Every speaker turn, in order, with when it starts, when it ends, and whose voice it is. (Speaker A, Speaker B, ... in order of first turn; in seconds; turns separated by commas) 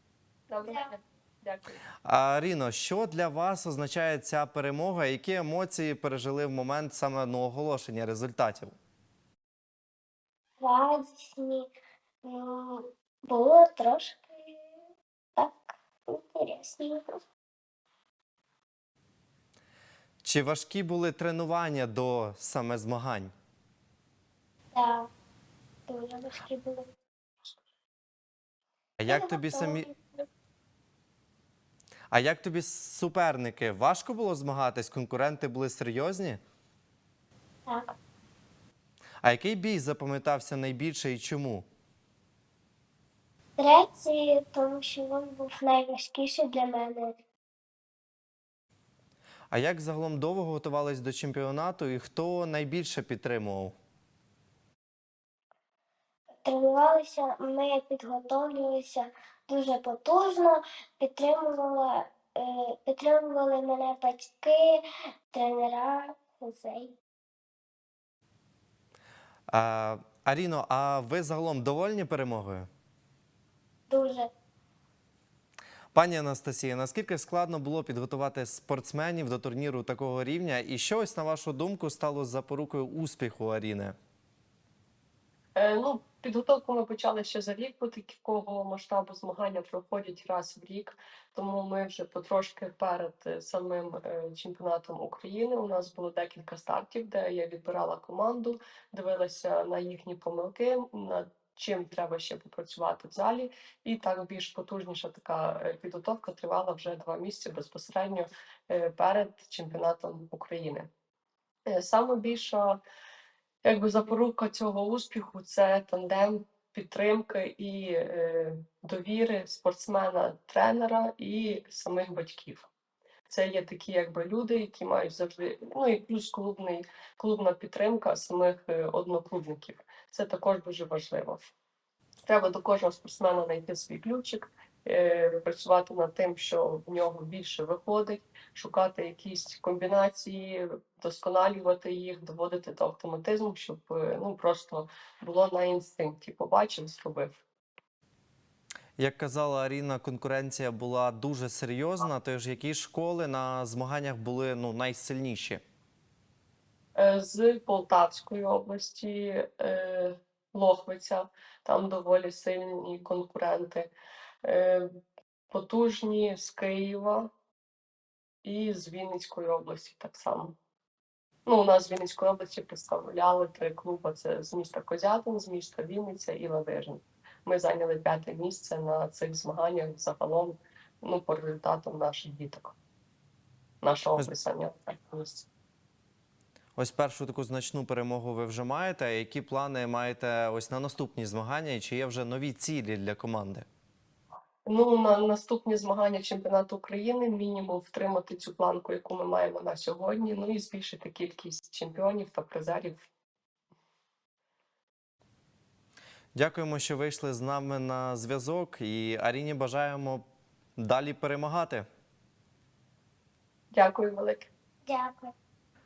Speaker A: 0.5-1.8, Speaker B: 2.0-8.7, Speaker C: 10.6-11.7, Speaker C: 12.2-14.6, Speaker C: 15.4-17.2, Speaker B: 20.2-23.3, Speaker C: 24.7-25.1, Speaker C: 25.9-26.9, Speaker B: 29.0-29.9, Speaker C: 29.1-30.3, Speaker B: 32.1-36.4, Speaker C: 37.7-38.0, Speaker B: 39.2-41.7, Speaker C: 43.6-47.2, Speaker B: 49.5-53.7, Speaker C: 56.4-67.0, Speaker B: 69.5-72.7, Speaker C: 73.9-74.3, Speaker B: 75.9-84.0, Speaker A: 85.6-110.9, Speaker A: 111.7-112.8, Speaker A: 113.6-122.7, Speaker A: 123.3-131.5, Speaker A: 132.3-147.4, Speaker B: 149.0-155.6, Speaker A: 157.0-163.9, Speaker A: 164.4-164.9, Speaker A: 165.5-167.3, Speaker A: 168.4-170.6, Speaker A: 171.5-182.7, Speaker A: 183.8-185.5, Speaker B: 186.8-193.7, Speaker A: 194.7-203.1, Speaker B: 206.3-210.2, Speaker B: 210.8-211.9, Speaker A: 213.7-214.5, Speaker C: 214.9-215.3